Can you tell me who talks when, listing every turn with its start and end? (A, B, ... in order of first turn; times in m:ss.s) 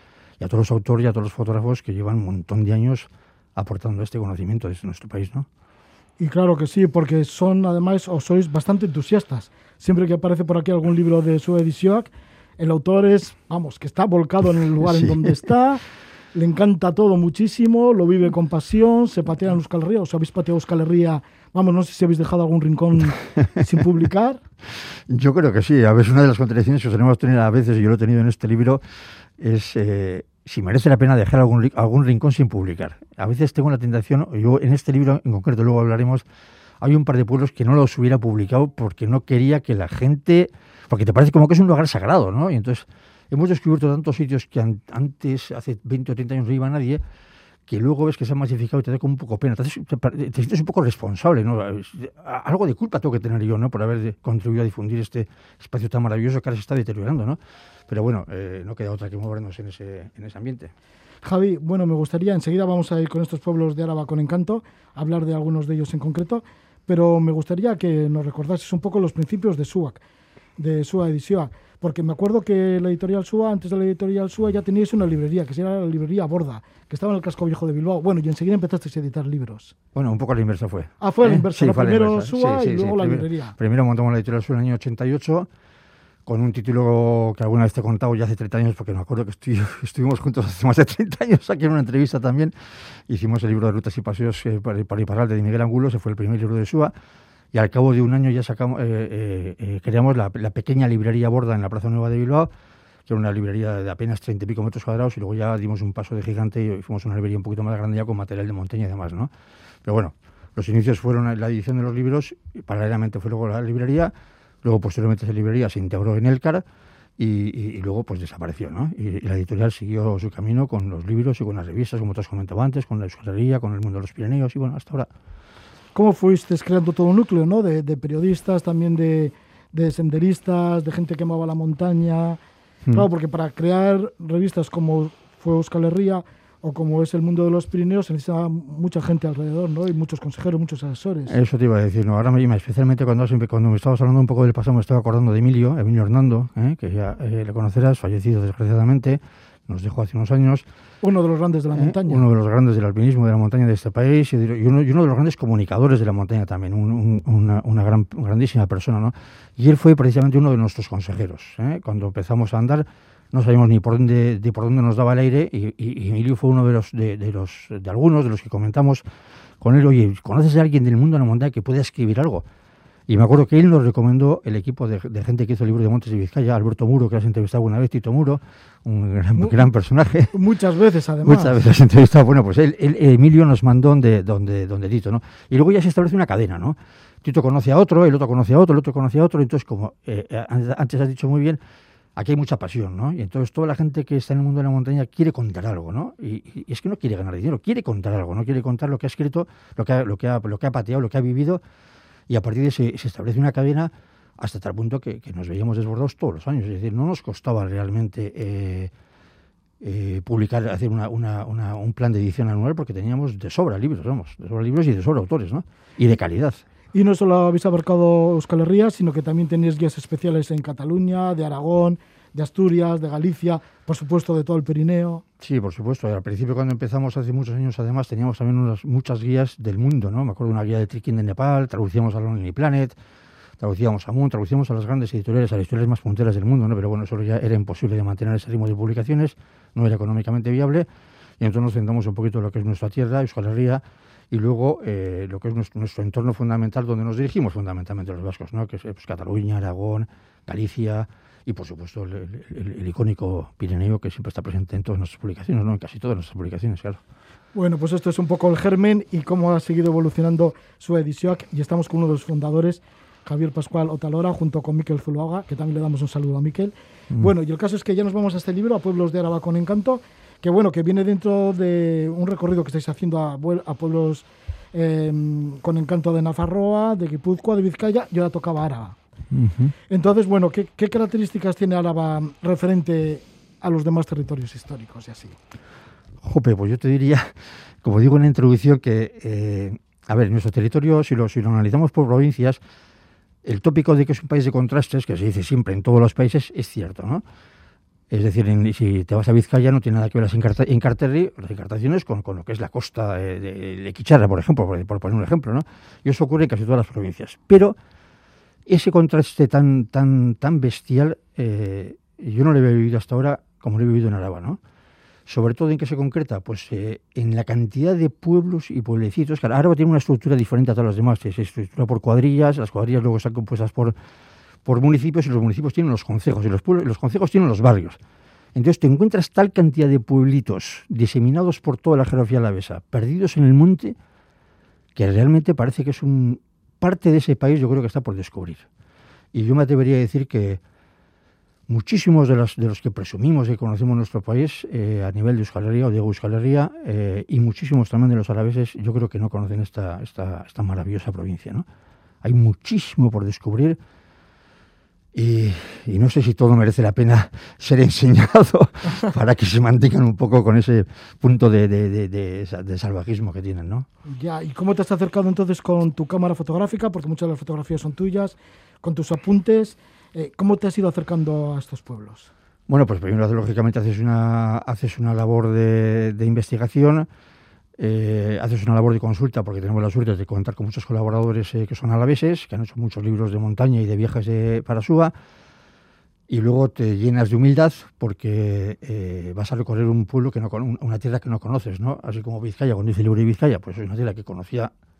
0:00.4-0:05.5 A
0:06.2-0:15.8 B
0:14.8-0:15.3 A
0:16.3-0:24.4 B
0:25.1-0:28.8 A
0:29.4-0:36.2 A
0:36.8-0:47.0 A
0:47.7-1:00.7 A
1:01.2-1:10.0 B
1:10.6-1:19.7 B
1:19.9-1:25.5 A
1:21.0-1:23.6 B
1:26.2-1:32.5 A
1:33.1-1:36.9 A
1:37.5-1:42.5 A
1:43.1-1:49.3 A
1:49.8-1:56.6 A
1:57.2-2:05.1 A
2:05.9-2:12.4 B
2:12.9-2:21.4 B
2:21.3-2:30.6 A
2:31.0-2:32.2 B
2:31.8-2:49.0 A
2:49.6-2:52.4 A
2:53.1-3:00.3 A
2:59.3-2:59.7 B
3:00.3-3:01.6 B
3:01.2-3:11.6 A
3:12.2-3:21.6 A
3:22.3-3:28.9 A
3:29.8-3:36.6 A
3:36.9-3:45.2 B
3:45.4-3:53.0 A
3:53.6-4:00.9 A
4:01.4-4:17.0 A
4:17.5-4:39.0 B
4:39.3-4:39.7 A
4:39.9-4:45.4 B
4:46.2-4:52.6 A
4:53.4-4:57.2 A
4:58.1-5:07.8 A
5:08.6-5:14.6 A
5:15.3-5:23.9 A
5:24.6-5:28.0 A
5:28.5-5:34.0 A
5:34.9-5:38.7 A
5:39.3-5:40.6 A
5:41.7-5:51.6 A
5:52.2-5:53.8 A
5:55.1-6:03.9 A
6:04.0-6:12.3 B
6:12.7-6:17.1 A
6:17.8-6:25.1 A
6:26.3-6:34.7 A